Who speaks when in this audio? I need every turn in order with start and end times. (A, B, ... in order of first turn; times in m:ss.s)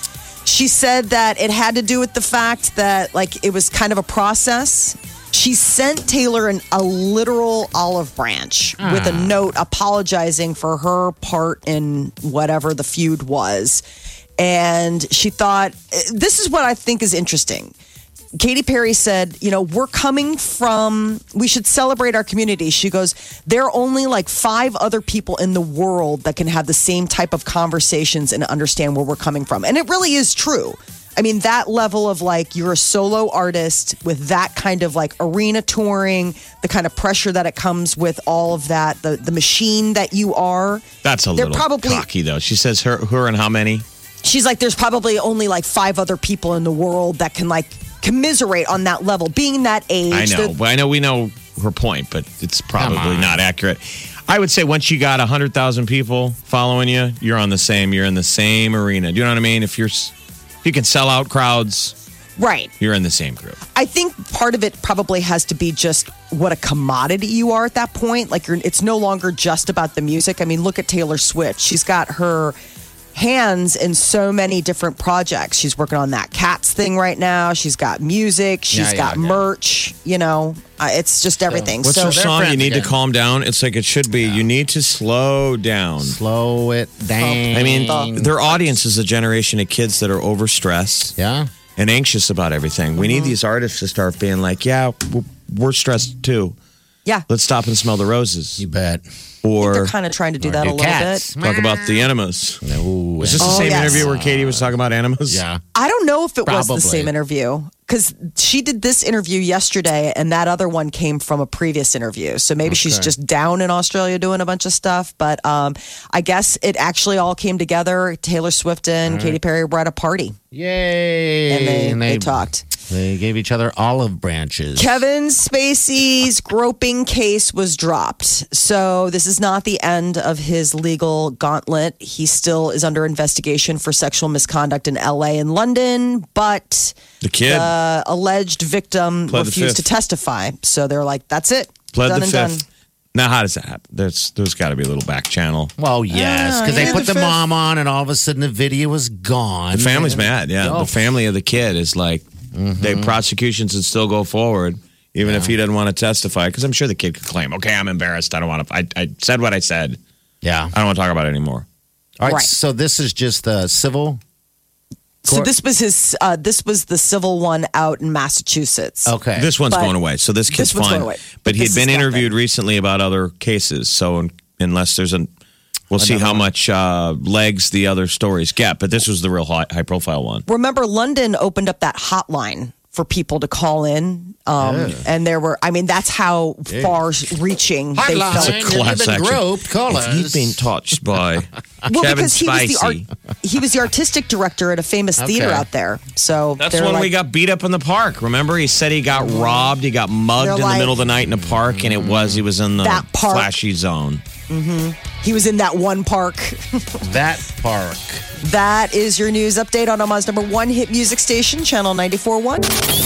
0:00.4-0:13.8 A
0:08.8-0:09.4 B
0:14.4-0:17.7 A
0:18.4-0:40.8 A
0:41.0-0:43.8 C
0:41.4-0:42.0 A
0:44.2-0:50.5 A
0:50.1-1:00.1 C
0:52.7-0:53.4 B
1:00.6-1:01.9 C
1:02.4-1:02.7 A
1:02.8-1:03.6 C
1:03.7-1:12.6 A
1:13.1-1:22.2 A
1:18.7-1:19.4 B
1:21.5-1:22.9 B
1:21.8-1:26.2 C
1:24.2-1:24.4 B
1:26.0-1:28.3 B
1:27.2-1:28.1 A
1:27.5-1:31.1 C
1:31.2-1:31.5 B
1:31.8-1:36.5 C
1:33.0-1:33.3 A
1:37.3-1:38.6 C
1:38.6-1:39.0 B
1:39.4-1:39.9 C
1:39.6-1:41.3 A
1:40.4-1:42.1 B
1:41.4-1:42.6 C
1:42.6-1:44.7 B
1:43.2-1:45.4 C
1:43.4-1:44.1 A
1:45.3-1:45.6 B
1:45.7-2:00.4 A
1:46.4-1:47.1 B
1:52.6-1:53.1 B
1:59.0-1:59.4 B
2:00.5-2:05.0 B
2:01.5-2:02.6 A
2:04.8-2:22.6 A
2:17.2-2:17.7 C
2:19.3-2:19.9 C
2:21.9-2:22.6 C
2:23.1-2:25.7 C
2:25.8-2:31.0 B
2:26.1-2:27.4 A
2:29.7-2:32.2 C
2:32.5-2:33.2 B
2:32.8-2:40.0 C
2:35.2-2:35.5 B
2:40.4-2:40.7 B
2:40.7-2:41.6 C
2:42.2-2:44.2 B
2:42.2-2:42.5 A
2:45.2-2:49.1 A
2:49.0-2:49.5 B
2:49.4-2:55.3 C
2:49.7-2:49.9 A
2:50.5-2:52.3 A
2:55.9-3:00.4 C
2:56.0-2:56.5 B
3:00.5-3:08.6 A
3:04.6-3:05.0 B
3:06.7-3:07.0 B
3:08.0-3:10.7 B
3:08.3-3:13.1 C
3:11.8-3:17.1 A
3:15.2-3:15.6 B
3:16.6-3:24.2 C
3:19.2-3:19.7 A
3:20.4-3:21.0 A
3:21.2-3:22.4 B
3:22.8-3:23.5 A
3:24.5-3:27.0 A
3:27.0-3:28.2 B
3:28.4-3:32.7 A